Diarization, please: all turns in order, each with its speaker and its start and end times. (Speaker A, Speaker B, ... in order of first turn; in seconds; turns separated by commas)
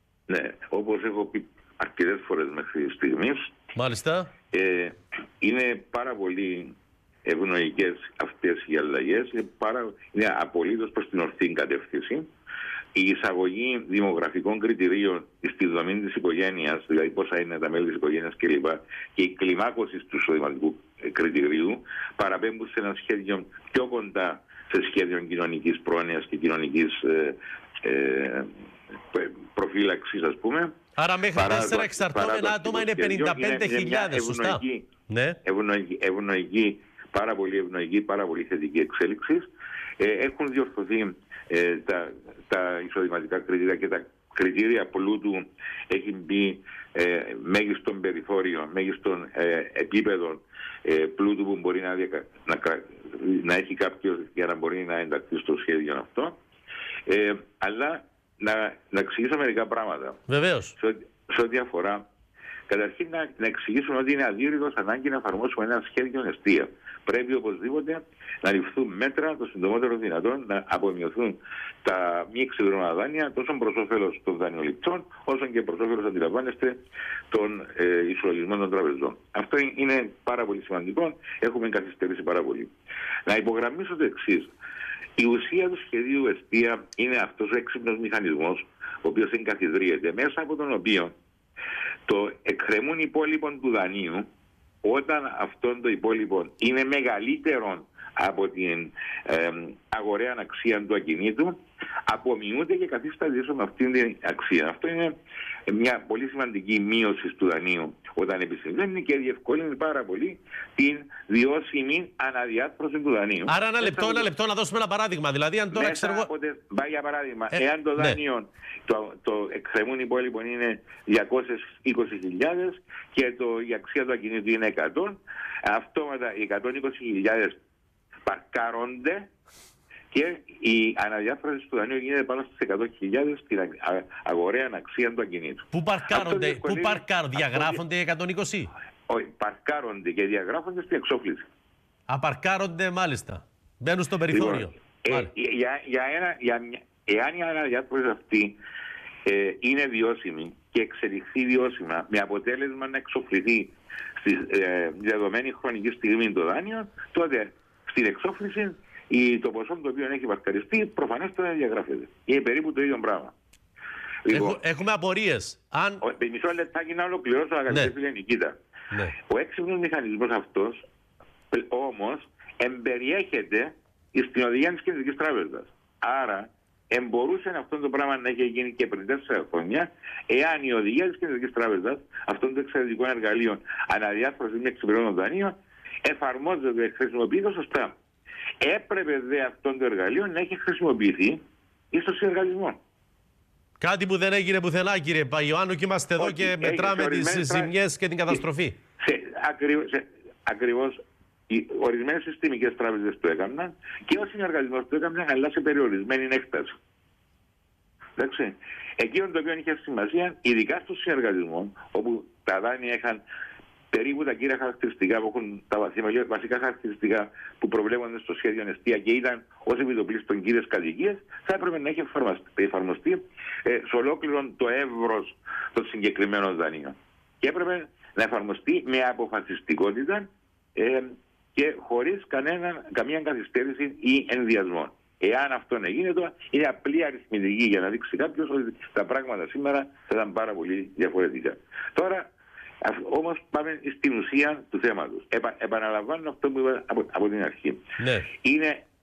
Speaker A: 0.3-3.5, Speaker B: 3.8-4.3, Speaker A: 4.5-12.3, Speaker A: 12.9-28.5, Speaker A: 29.1-30.8, Speaker B: 31.0-35.4, Speaker A: 31.3-34.9, Speaker A: 35.4-39.5, Speaker A: 40.0-56.4, Speaker A: 57.1-60.2, Speaker B: 60.3-60.8, Speaker A: 60.8-62.1, Speaker A: 62.7-82.7, Speaker A: 83.3-84.5, Speaker A: 85.2-91.1, Speaker A: 92.1-94.3, Speaker A: 94.8-105.2, Speaker A: 105.7-114.3, Speaker B: 113.5-116.3, Speaker A: 115.7-127.6, Speaker B: 117.5-118.2, Speaker A: 128.3-129.3, Speaker A: 130.1-137.8, Speaker B: 135.7-138.7, Speaker A: 139.1-141.5, Speaker B: 142.1-145.3, Speaker A: 144.3-148.6, Speaker A: 149.3-163.3, Speaker A: 164.2-164.6, Speaker B: 164.3-166.0, Speaker A: 166.0-168.6, Speaker A: 169.3-170.8, Speaker A: 171.5-187.9, Speaker A: 188.6-191.4, Speaker A: 191.9-192.8, Speaker B: 193.8-198.8, Speaker A: 196.2-197.7, Speaker A: 199.0-206.8, Speaker A: 208.2-213.2, Speaker A: 213.9-247.8, Speaker B: 248.0-248.3, Speaker A: 248.3-248.8